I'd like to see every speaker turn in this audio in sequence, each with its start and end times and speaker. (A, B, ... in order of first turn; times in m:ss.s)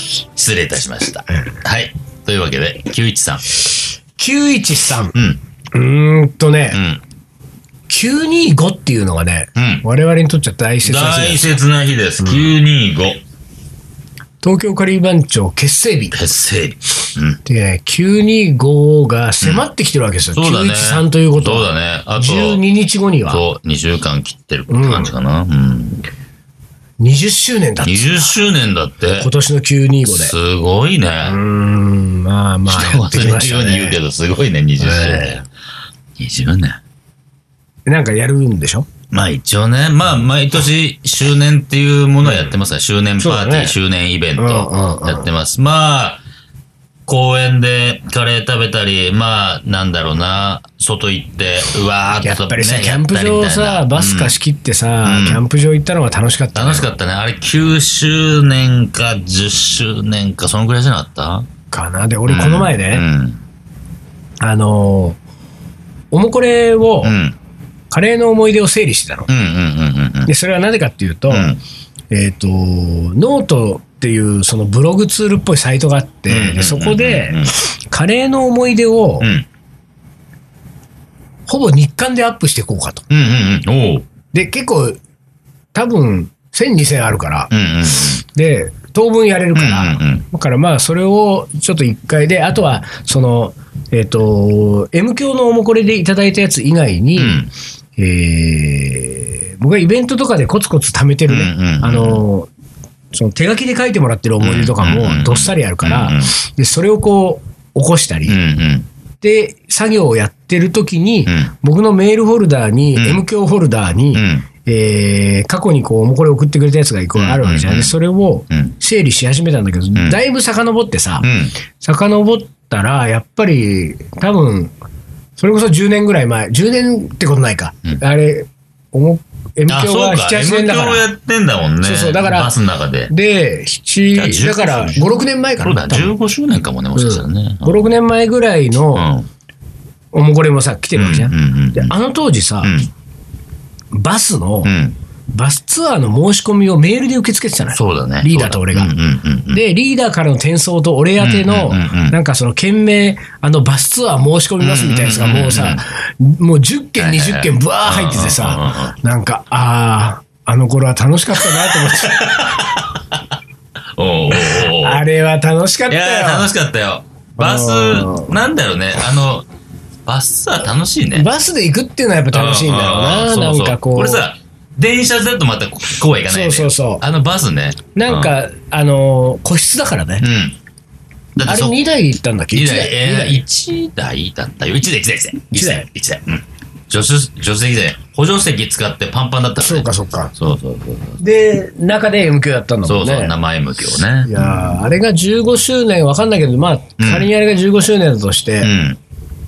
0:00.1-0:03.4 A
0:04.2-0:05.2 B
0:05.1-0:05.4 A
0:05.7-0:06.8 B
0:06.7-0:07.0 A
0:07.9-0:11.5 B
0:09.6-0:09.8 A
0:10.8-0:13.2 A
0:12.2-0:12.5 B
0:14.4-0:16.2 B
0:16.1-0:17.4 A
0:17.4-0:23.4 B
0:20.3-0:22.6 A
0:23.3-0:26.0 A
0:24.7-0:25.1 B
0:27.0-0:28.3 B
0:27.8-0:29.3 A
0:29.2-0:30.3 B
0:30.1-0:31.4 A
0:31.2-0:34.0 B
0:32.7-0:35.4 A
0:34.8-0:35.4 B
0:36.2-0:36.8 A
0:37.9-0:38.9 B
0:39.1-0:46.2 A
0:43.2-0:43.8 B
0:44.4-0:45.3 B
0:47.1-0:54.4 A
0:52.2-0:56.9 B
0:55.0-0:55.4 A
0:56.5-1:01.5 A
1:01.7-1:03.0 B
1:02.3-1:03.4 A
1:04.4-1:05.2 B
1:06.1-1:07.2 B
1:07.0-1:07.4 A
1:07.9-1:09.3 B
1:09.3-1:10.3 A
1:10.3-1:11.6 B
1:11.3-1:11.6 A
1:12.1-1:19.3 B
1:16.3-1:17.5 A
1:19.2-1:19.5 A
1:21.5-1:23.0 B
1:23.1-1:24.1 A
1:24.3-1:25.0 B
1:25.7-1:27.5 B
1:27.5-1:28.2 A
1:28.3-1:37.4 B
1:29.5-1:30.2 A
1:37.2-1:37.5 A
1:38.0-1:42.5 B
1:41.3-1:42.2 A
1:43.1-1:48.4 B
1:44.4-1:46.3 A
1:48.3-1:48.9 A
1:49.2-2:01.3 B
1:53.0-1:53.2 A
1:54.1-1:54.5 A
1:57.1-1:58.0 A
2:01.2-2:01.5 A
2:01.8-2:04.7 B
2:05.4-2:11.1 B
2:09.7-2:13.1 A
2:11.8-2:12.5 B
2:13.1-2:16.2 B
2:14.1-2:17.8 A
2:17.0-2:19.1 B
2:19.0-2:19.3 A
2:20.1-2:22.8 B
2:21.0-2:21.9 A
2:22.6-2:22.9 A
2:23.9-2:24.7 B
2:24.6-2:25.0 A
2:25.3-2:29.0 B
2:27.8-2:29.6 A
2:29.5-2:42.7 B
2:31.2-2:32.2 A
2:34.6-2:35.8 A
2:37.0-2:39.0 A
2:41.4-2:43.4 A
2:44.0-2:45.0 A
2:44.3-2:46.5 B
2:45.9-2:49.5 A
2:47.4-2:48.4 B
2:50.1-2:51.3 A
2:51.1-2:54.2 B
2:52.3-2:58.3 A
2:56.3-2:57.0 B
2:58.0-3:00.3 B
3:00.2-3:00.6 A
3:01.4-3:01.8 A
3:01.4-3:03.4 B
3:02.5-3:11.2 A
3:05.5-3:05.9 B
3:09.6-3:10.3 B
3:11.2-3:13.4 B
3:12.8-3:14.8 A
3:14.2-3:18.7 B
3:17.0-3:17.3 A
3:18.6-3:19.0 A